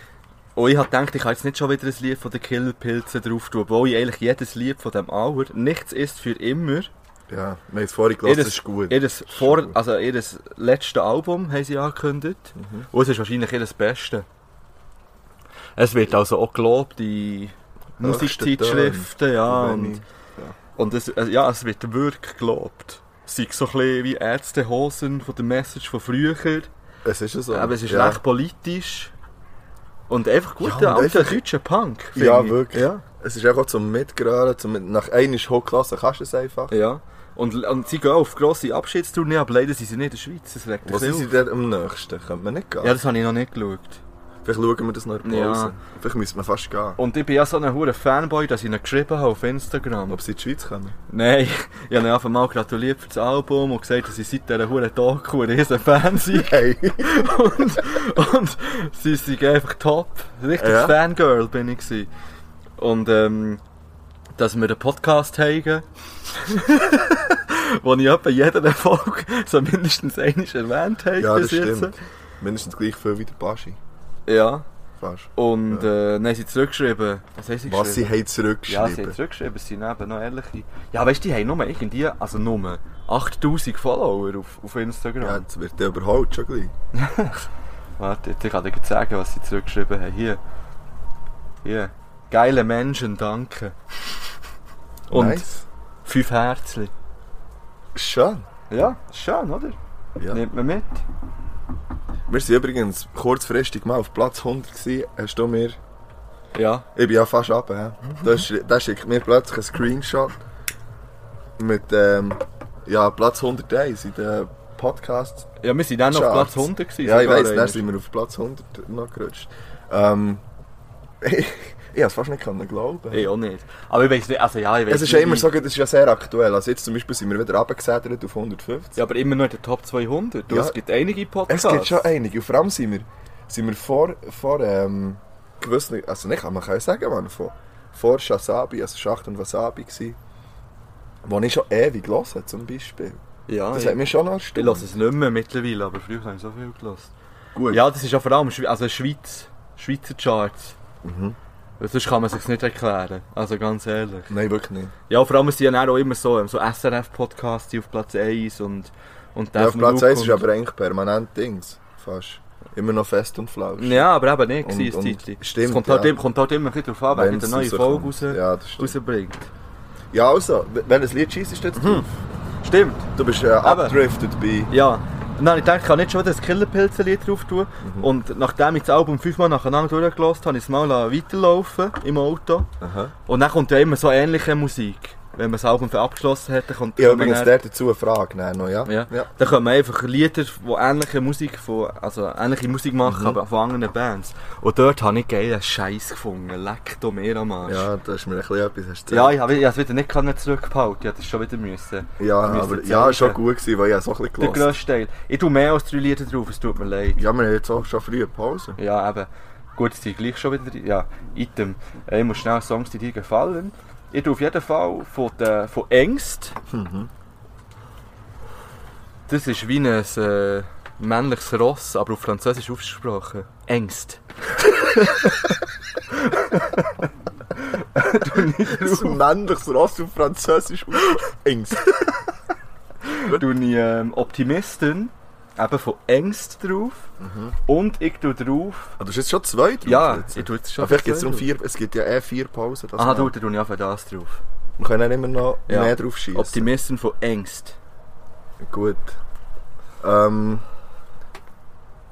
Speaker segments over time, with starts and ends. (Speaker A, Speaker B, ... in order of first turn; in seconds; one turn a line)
Speaker A: 0.6-6.9
Speaker B: 7.3-9.8
Speaker A: 8.2-14.2
Speaker B: 12.6-12.9
Speaker A: 15.8-20.0
Speaker B: 18.0-20.6
Speaker A: 20.8-26.7
Speaker B: 27.0-28.2
Speaker A: 27.5-29.1
Speaker A: 30.1-33.0
Speaker B: 30.6-31.4
Speaker B: 32.1-36.7
Speaker A: 36.7-41.3
Speaker B: 40.8-43.0
Speaker A: 42.8-44.0
Speaker B: 44.4-47.0
Speaker A: 45.2-45.8
Speaker A: 47.0-50.2
Speaker B: 50.1-51.0
Speaker A: 51.1-62.1
Speaker B: 56.3-57.3
Speaker B: 60.6-61.0
Speaker A: 62.8-63.6
Speaker A: 64.3-71.9
Speaker B: 71.2-73.8
Speaker A: 74.3-74.7
Speaker B: 75.0-75.9
Speaker A: 75.3-78.1
Speaker B: 77.7-79.2
Speaker A: 78.7-85.4
Speaker B: 85.2-86.7
Speaker A: 86.9-87.4
Speaker A: 88.0-90.4
Speaker A: 91.6-93.8
Speaker A: 95.1-95.5
Speaker B: 95.1-95.6
Speaker A: 96.0-96.9
Speaker B: 97.9-98.5
Speaker A: 98.7-99.8
Speaker A: 100.3-101.0
Speaker B: 102.3-105.8
Speaker A: 106.5-106.8
Speaker B: 106.9-110.4
Speaker B: 111.6-115.5
Speaker A: 115.6-117.8
Speaker B: 116.1-120.4
Speaker B: 121.2-123.3
Speaker A: 123.1-125.5
Speaker B: 124.9-129.0
Speaker A: 128.9-132.1
Speaker B: 130.5-130.8
Speaker B: 131.5-140.2
Speaker B: 141.2-144.9
Speaker A: 143.5-147.1
Speaker B: 147.5-147.8
Speaker A: 147.7-150.8
Speaker B: 151.0-151.4
Speaker A: 151.8-154.3
Speaker B: 154.3-154.9
Speaker A: 155.1-160.4
Speaker B: 159.6-166.2
Speaker A: 163.8-169.5
Speaker B: 167.1-168.9
Speaker B: 170.1-172.1
Speaker A: 171.8-172.1
Speaker A: 172.6-173.1
Speaker B: 173.2-174.7
Speaker A: 173.6-174.0
Speaker A: 174.7-182.7
Speaker B: 177.8-178.1
Speaker B: 182.8-183.1
Speaker A: 183.3-187.5
Speaker B: 186.9-189.3
Speaker A: 188.8-197.9
Speaker B: 193.0-193.4
Speaker B: 197.6-199.3
Speaker A: 199.1-203.4
Speaker B: 202.2-204.7
Speaker A: 204.4-207.2
Speaker B: 207.2-208.8
Speaker A: 208.8-216.6
Speaker B: 216.7-217.1
Speaker A: 219.3-226.9
Speaker A: 227.6-229.2
Speaker B: 228.2-232.0
Speaker A: 233.0-237.1
Speaker B: 237.2-237.5
Speaker A: 237.7-238.9
Speaker B: 239.0-243.3
Speaker A: 239.8-241.5
Speaker A: 243.0-244.4
Speaker B: 244.8-246.7
Speaker A: 245.7-247.8
Speaker B: 248.6-249.2
Speaker B: 250.0-250.6